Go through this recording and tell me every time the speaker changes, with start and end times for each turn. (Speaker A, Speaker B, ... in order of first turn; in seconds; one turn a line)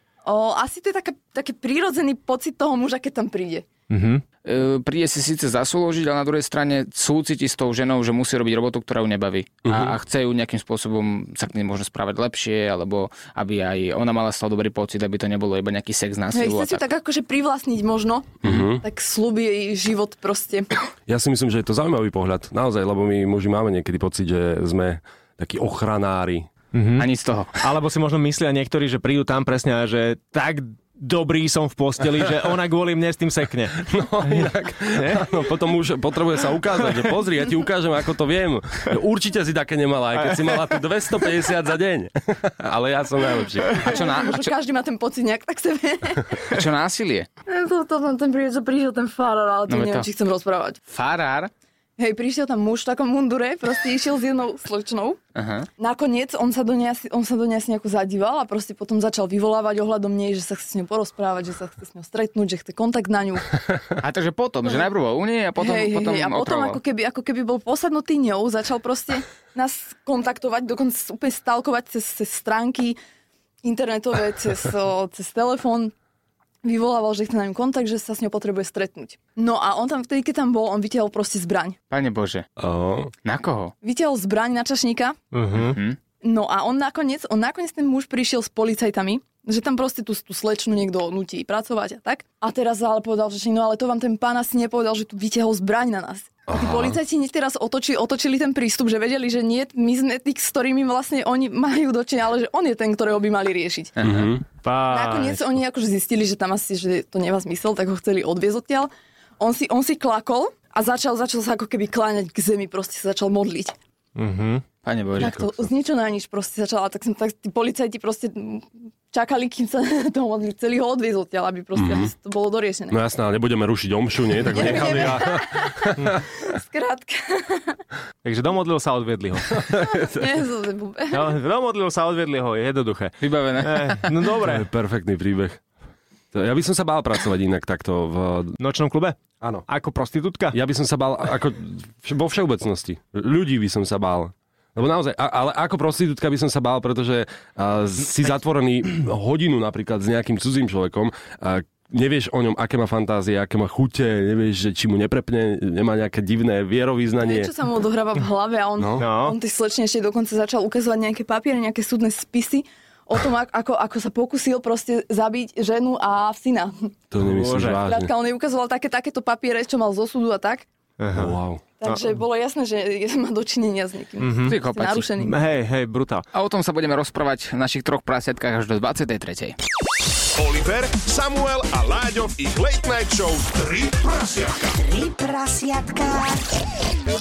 Speaker A: 0.2-3.7
Speaker B: 3.9-4.2
Speaker C: 4.4-16.8
Speaker D: 9.6-9.9
Speaker A: 16.3-20.7
Speaker D: 18.4-18.8
Speaker D: 21.1-26.5
Speaker B: 26.7-35.3
Speaker C: 27.0-27.6
Speaker D: 33.8-43.8
Speaker C: 43.8-44.5
Speaker A: 43.8-46.5
Speaker C: 46.5-47.3
Speaker A: 47.5-50.8
Speaker C: 49.7-50.1
Speaker C: 50.9-51.5
Speaker A: 52.0-55.2
Speaker C: 55.4-55.7
Speaker A: 55.8-63.6
Speaker C: 64.0-66.8
Speaker A: 65.6-73.0
Speaker A: 73.6-75.9
Speaker A: 76.6-81.8
Speaker C: 81.9-82.5
Speaker D: 82.6-83.1
Speaker C: 83.2-83.7
Speaker A: 83.8-85.2
Speaker B: 85.3-85.8
Speaker C: 85.5-86.0
Speaker A: 86.2-104.2
Speaker D: 96.5-97.0
Speaker D: 104.0-104.4
Speaker B: 104.6-105.4
Speaker A: 104.8-113.8
Speaker B: 114.2-114.6
Speaker C: 114.8-115.3
Speaker A: 115.2-123.0
Speaker D: 115.2-115.7
Speaker D: 121.8-122.1
Speaker D: 122.9-126.2
Speaker A: 124.5-127.8
Speaker B: 128.2-129.7
Speaker D: 129.5-130.3
Speaker A: 129.8-131.3
Speaker B: 131.1-134.7
Speaker C: 133.2-134.0
Speaker D: 134.4-135.6
Speaker D: 136.3-138.6
Speaker B: 138.6-140.6
Speaker D: 139.4-139.7
Speaker D: 140.5-157.5
Speaker A: 157.2-166.9
Speaker D: 158.8-159.0
Speaker B: 159.0-159.4
Speaker D: 167.1-168.1
Speaker B: 167.2-167.8
Speaker A: 167.8-170.7
Speaker B: 171.0-171.4
Speaker D: 171.1-171.6
Speaker A: 171.8-175.3
Speaker B: 174.2-174.6
Speaker C: 174.4-175.1
Speaker B: 175.2-176.2
Speaker C: 176.3-179.6
Speaker E: 180.3-184.9
Speaker B: 185.0-186.3